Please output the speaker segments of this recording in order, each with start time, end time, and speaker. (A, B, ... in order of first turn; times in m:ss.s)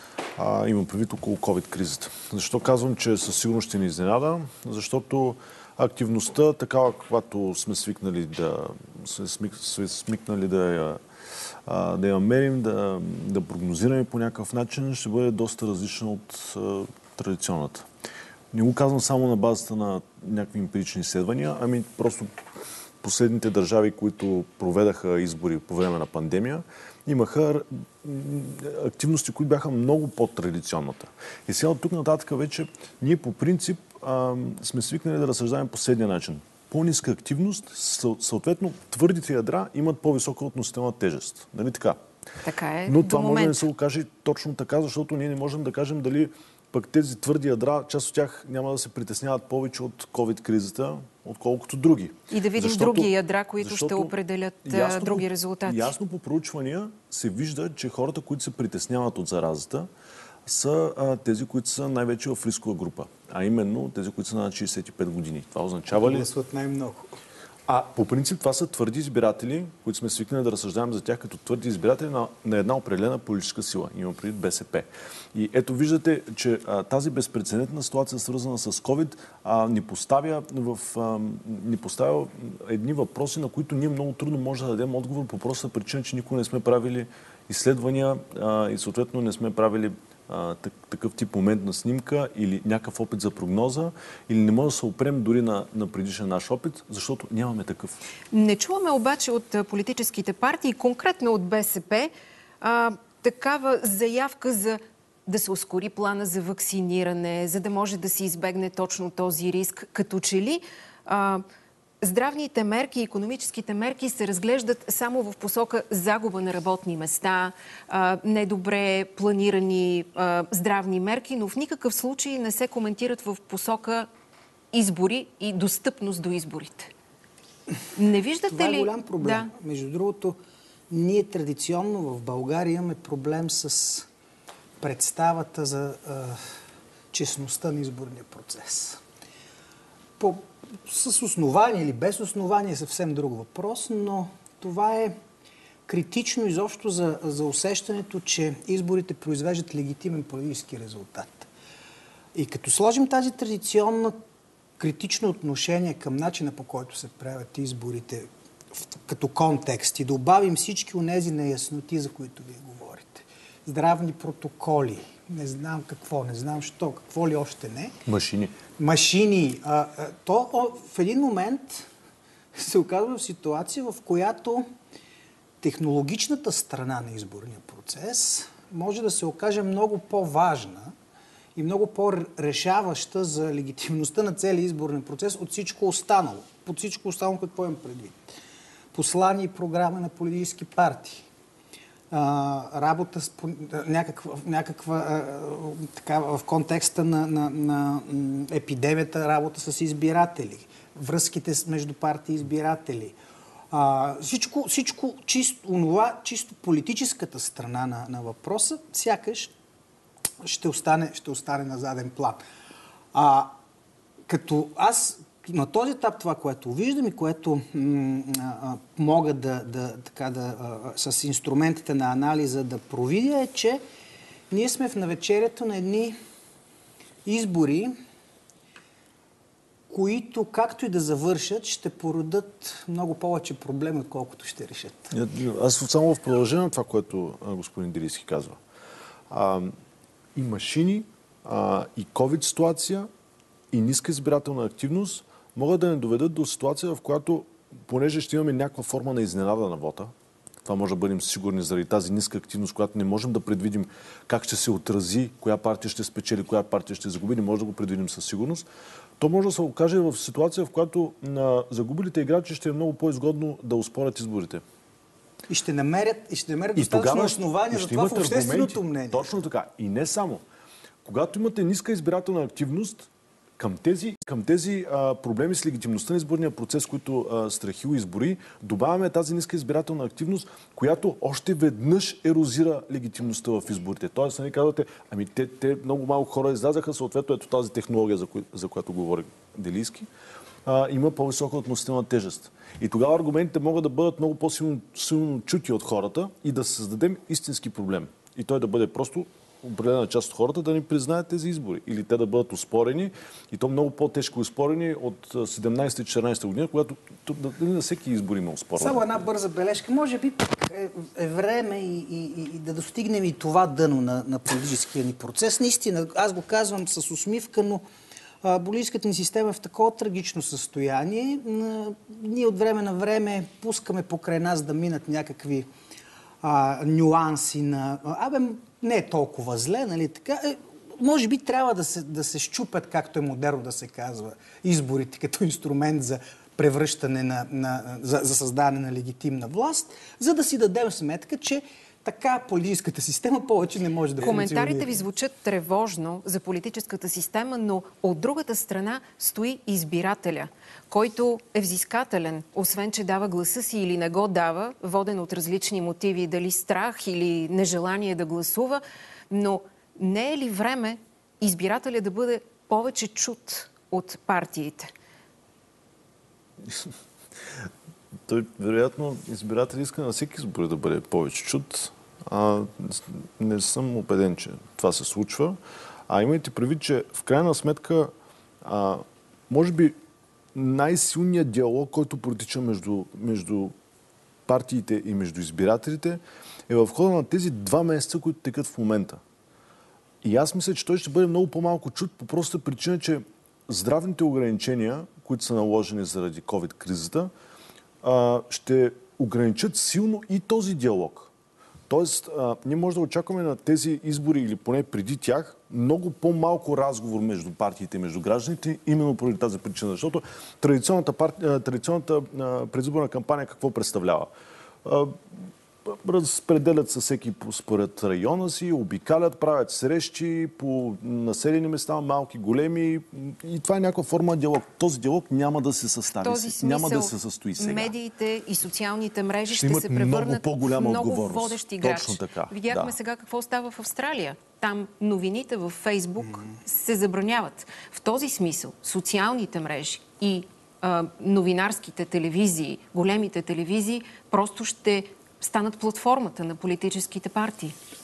0:00.4-0:11.0 A
0:11.6-0:17.9 A
0:18.5-0:22.3 A
0:23.0-0:42.0 A
0:42.4-0:43.6 B
0:42.9-0:54.1 A
0:52.3-0:55.9 B
0:54.6-0:59.9 A
1:00.4-1:06.3 A
1:05.9-1:07.1 C
1:07.7-1:38.0 A
1:38.3-1:51.4 B
1:52.0-2:04.1 B
2:04.7-2:06.9 B
2:07.9-2:09.5 B
2:08.5-2:10.4 C
2:10.9-2:14.1 C
2:14.8-2:16.4 C
2:17.1-2:19.0 C
2:20.2-2:25.2 C
2:25.8-2:31.5 C
2:32.3-2:34.2 C
2:34.8-2:48.0 C
2:48.0-2:48.6 A
2:48.8-2:51.8 C
2:52.6-2:54.7 C
2:55.6-3:00.9 C
3:01.6-3:08.4 C
3:08.9-3:11.2 C
3:12.1-3:23.2 C
3:23.7-3:29.5 C
3:30.4-3:32.4 C
3:33.1-3:33.6 C
3:34.3-3:43.8 C
3:44.5-3:46.2 C
3:47.2-3:47.9 C
3:49.9-3:55.1 C
3:55.1-3:58.6 A
3:59.3-3:59.7 A
4:00.3-4:03.1 A
4:03.7-4:10.1 A
4:10.6-4:18.6 A
4:19.2-4:24.6 A
4:25.5-4:29.4 C
4:26.7-4:30.4 A
4:31.0-4:33.1 A
4:33.6-4:50.1 A
4:50.6-5:09.0 A
5:08.8-5:17.8 C
5:18.4-5:25.7 C
5:26.4-5:45.0 C
5:44.2-6:04.9 B
6:06.6-6:06.9 A
6:08.3-6:15.6 A
6:16.1-6:20.0 A
6:20.5-6:23.7 A
6:24.4-6:29.2 A
6:30.2-6:37.3 A
6:38.0-6:41.3 A
6:41.9-6:54.3 A
6:54.8-7:07.9 A
7:06.2-7:27.7 B
7:09.5-7:13.0 A